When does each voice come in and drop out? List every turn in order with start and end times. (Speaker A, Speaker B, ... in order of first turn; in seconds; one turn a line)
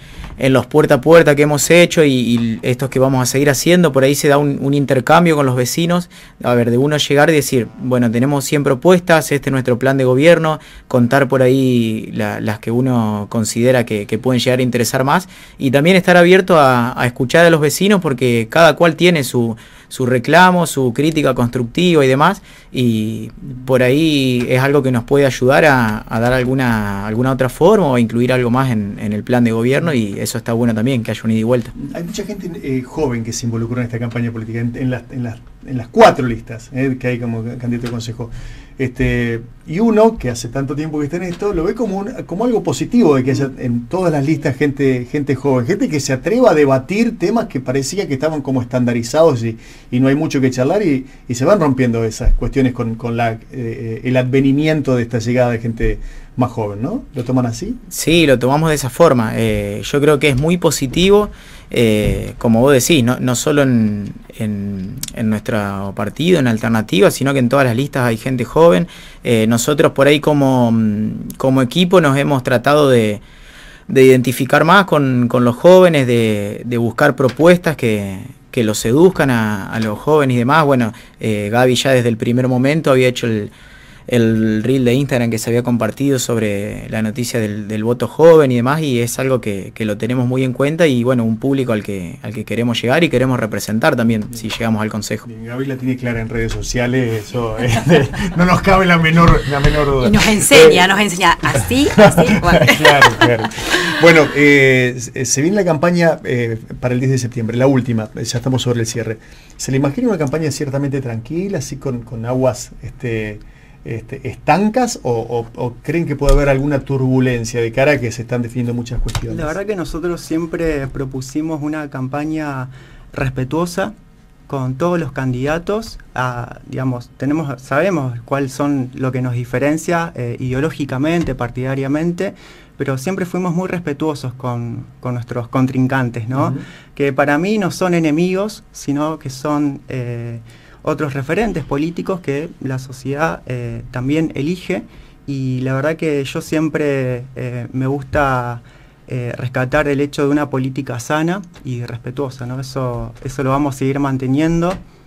Speaker A: 0.4-31.7
Speaker B: 31.8-57.8
Speaker A: 57.9-73.2
Speaker A: 73.9-83.5
Speaker A: 84.1-95.2
Speaker B: 95.2-100.9
Speaker C: 100.0-103.2
Speaker B: 102.0-119.5
Speaker D: 119.3-123.9
Speaker D: 124.5-154.8
Speaker B: 136.3-136.6